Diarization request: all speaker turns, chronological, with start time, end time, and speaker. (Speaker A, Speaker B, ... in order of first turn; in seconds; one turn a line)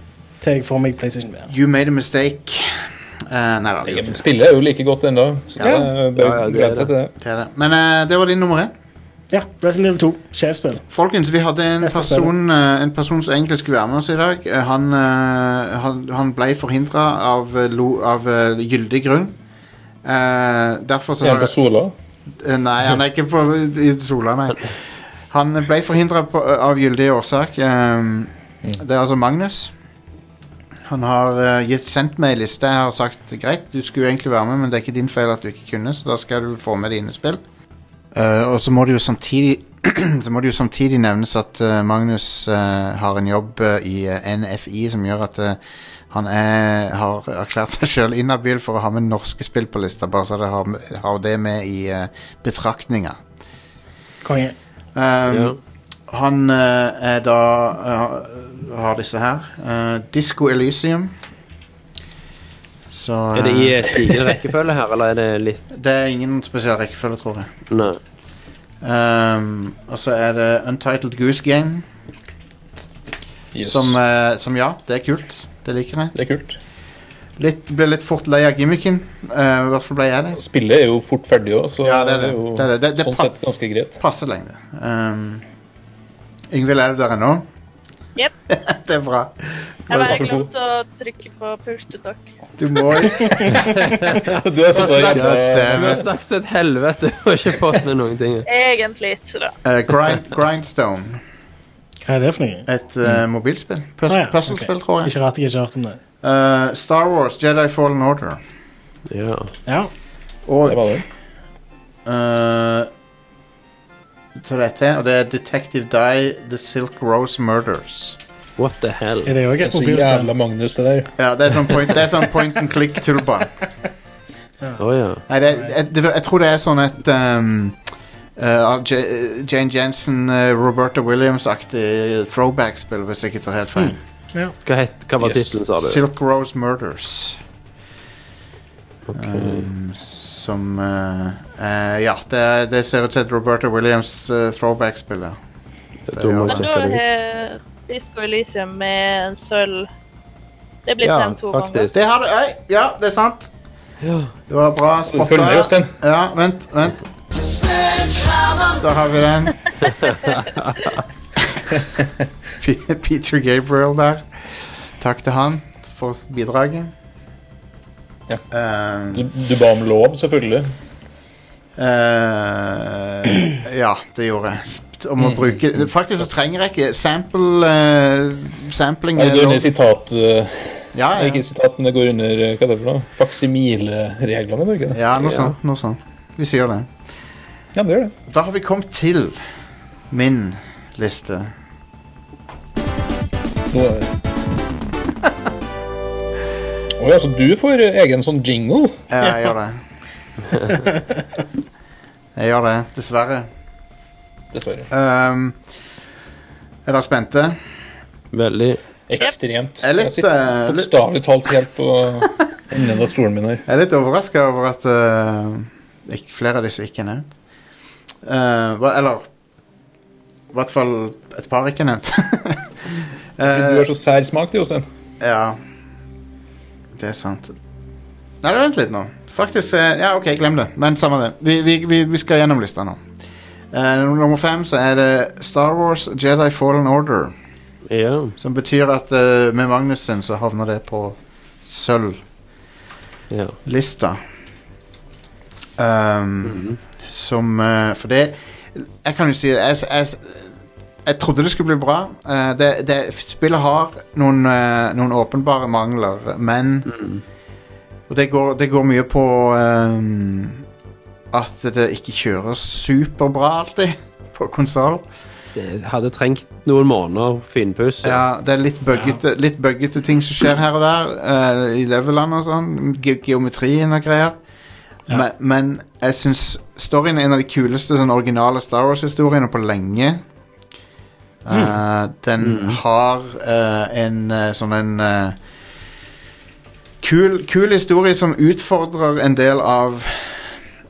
Speaker A: 0.4-1.5
Speaker B: 1.5-4.2
Speaker C: 3.8-7.1
Speaker B: 5.6-5.9
Speaker D: 5.8-6.9
Speaker B: 7.2-8.7
Speaker A: 9.3-10.8
Speaker B: 10.9-19.4
Speaker A: 11.8-12.3
Speaker B: 20.0-21.5
Speaker C: 21.2-21.9
Speaker B: 22.4-24.7
Speaker B: 25.3-29.7
Speaker B: 30.8-37.4
Speaker B: 38.1-45.6
Speaker B: 46.1-53.2
Speaker A: 54.2-54.5
Speaker B: 54.9-55.5
Speaker D: 55.3-55.6
Speaker B: 56.1-61.1
Speaker B: 62.9-63.9
Speaker D: 63.3-65.6
Speaker B: 65.7-67.5
Speaker D: 67.7-68.0
Speaker B: 68.8-71.8
Speaker C: 73.5-74.0
Speaker B: 73.6-76.1
Speaker C: 76.1-76.6
Speaker B: 77.4-80.4
Speaker C: 80.3-84.0
Speaker B: 81.8-83.3
Speaker B: 84.0-85.4
Speaker B: 86.5-87.4
Speaker B: 88.5-90.2
Speaker E: 89.9-92.3
Speaker C: 89.9-90.5
Speaker B: 92.6-93.6
Speaker C: 93.3-96.0
Speaker D: 94.0-98.5
Speaker B: 95.1-96.0
Speaker E: 98.5-99.5
Speaker B: 99.6-101.2
Speaker A: 102.0-102.7
Speaker B: 102.7-105.1
Speaker A: 104.1-106.0
Speaker B: 106.2-108.4
Speaker D: 109.1-109.5
Speaker B: 110.5-111.0
Speaker C: 110.7-111.0
Speaker B: 112.0-112.9
Speaker B: 114.4-118.2
Speaker D: 118.6-119.4
Speaker A: 119.2-120.3
Speaker C: 119.6-121.8
Speaker B: 121.2-123.5
Speaker D: 124.8-125.2
Speaker B: 125.3-127.8
Speaker B: 128.4-134.0
Speaker A: 133.8-134.5
Speaker D: 134.6-136.0
Speaker B: 135.2-137.4
Speaker D: 139.1-139.7
Speaker B: 139.1-145.4
Speaker D: 146.1-147.0
Speaker B: 146.1-146.7
Speaker E: 146.4-149.9
Speaker E: 150.9-151.9
Speaker D: 151.0-151.9
Speaker B: 151.9-153.5
Speaker D: 154.0-154.3
Speaker B: 154.5-159.7
Speaker C: 155.1-155.9
Speaker D: 160.7-160.9
Speaker C: 161.8-162.0
Speaker B: 162.6-164.3
Speaker B: 165.0-166.9
Speaker B: 168.5-169.3
Speaker C: 169.1-170.7
Speaker B: 171.8-179.7
Speaker C: 179.2-185.0
Speaker B: 180.9-181.4
Speaker B: 184.9-186.9
Speaker D: 185.2-185.5
Speaker C: 187.7-188.1
Speaker B: 188.3-189.4
Speaker B: 190.1-191.5
Speaker C: 193.7-194.1
Speaker C: 197.0-199.0
Speaker B: 199.1-199.8
Speaker B: 202.3-203.5
Speaker C: 204.5-204.9
Speaker B: 204.9-205.6
Speaker B: 206.8-207.6
Speaker D: 208.3-208.8
Speaker C: 209.1-213.6
Speaker B: 209.8-210.9
Speaker B: 213.7-217.3
Speaker B: 218.2-219.3
Speaker B: 220.5-223.9
Speaker C: 223.4-224.8
Speaker B: 225.2-225.6
Speaker B: 226.9-227.5
Speaker B: 228.4-233.0
Speaker B: 233.7-237.3
Speaker D: 237.9-238.3
Speaker B: 238.4-242.2
Speaker D: 243.3-243.6
Speaker B: 243.7-244.2
Speaker B: 245.8-250.5
Speaker D: 246.4-246.8
Speaker B: 251.0-256.9
Speaker D: 256.9-257.2
Speaker B: 258.1-260.6
Speaker B: 261.3-265.0
Speaker D: 265.5-268.2
Speaker B: 268.0-274.4
Speaker B: 275.1-280.2
Speaker B: 281.4-285.4
Speaker D: 282.4-282.8
Speaker B: 287.0-290.6